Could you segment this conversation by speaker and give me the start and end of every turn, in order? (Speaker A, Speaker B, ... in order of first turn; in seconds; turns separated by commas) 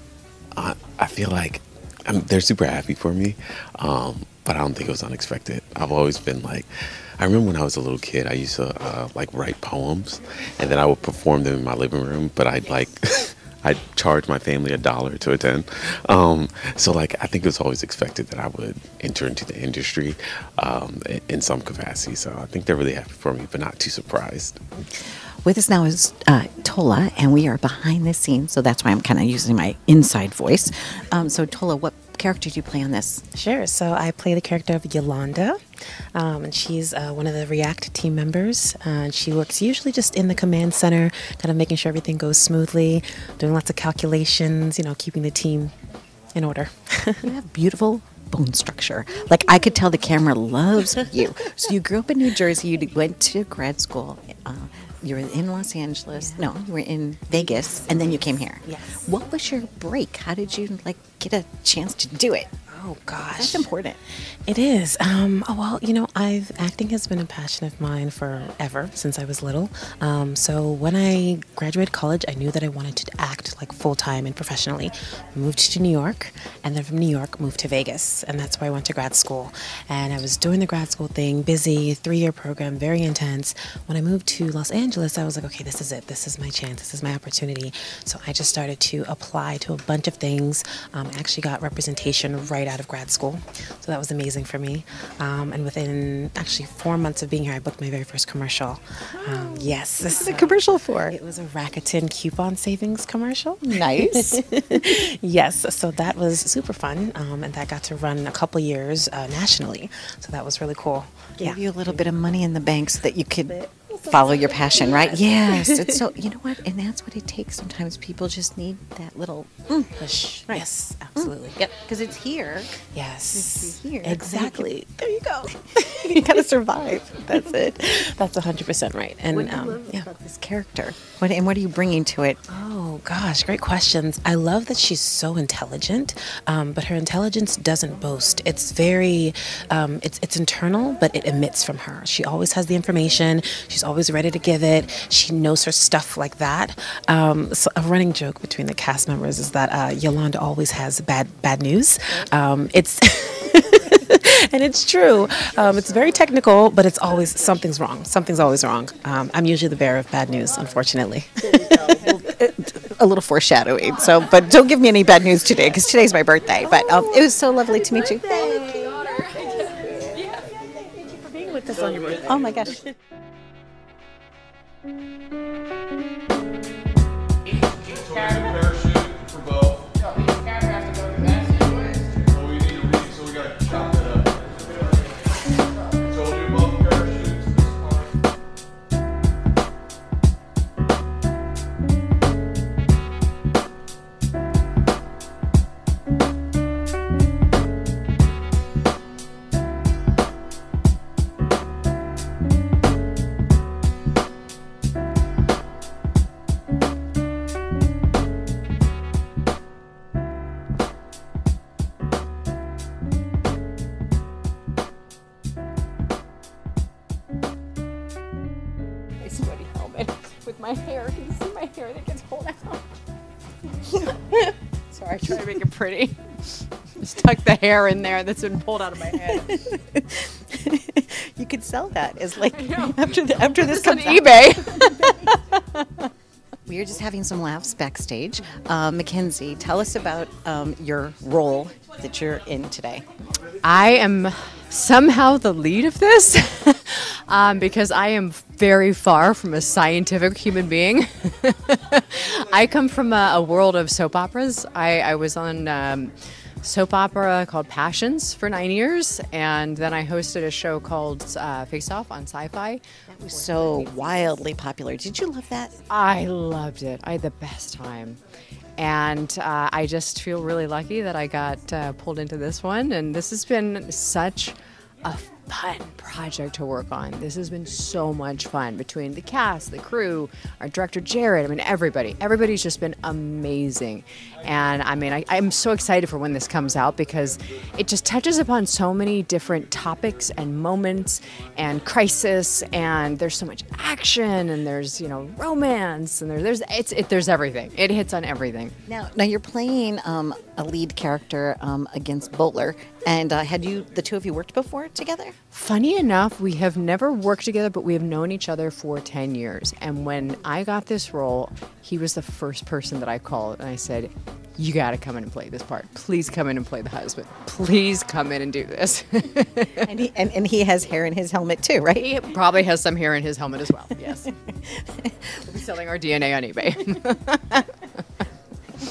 Speaker A: 0.6-24.6, Speaker B: 25.4-33.2, Speaker C: 33.3-35.6, Speaker C: 36.1-45.7, Speaker C: 46.3-47.3, Speaker B: 47.2-62.5, Speaker C: 56.1-56.4, Speaker C: 57.6-59.0, Speaker C: 62.7-63.7, Speaker B: 63.3-64.0, Speaker C: 64.5-111.6, Speaker B: 99.2-101.2, Speaker B: 103.6-104.5, Speaker B: 111.4-120.6, Speaker C: 114.6-115.0, Speaker C: 115.5-116.0, Speaker C: 120.0-121.6, Speaker B: 121.2-122.7, Speaker C: 122.9-124.9, Speaker B: 123.3-128.1, Speaker C: 125.9-126.2, Speaker C: 127.9-130.1, Speaker B: 129.3-132.5, Speaker C: 132.5-161.8, Speaker B: 161.5-169.7, Speaker D: 168.2-169.1, Speaker B: 171.3-172.8, Speaker B: 219.2-220.1, Speaker D: 220.5-222.2, Speaker B: 222.0-222.7, Speaker D: 224.9-226.2, Speaker D: 227.0-229.6, Speaker B: 229.3-236.1, Speaker D: 232.4-234.9, Speaker B: 236.6-243.0, Speaker D: 243.6-264.2, Speaker B: 263.1-265.8, Speaker D: 265.9-268.2, Speaker D: 268.8-298.7, Speaker B: 298.9-305.3, Speaker D: 305.5-319.9, Speaker B: 319.8-322.4, Speaker D: 321.9-324.3, Speaker B: 324.5-325.3, Speaker D: 325.4-327.4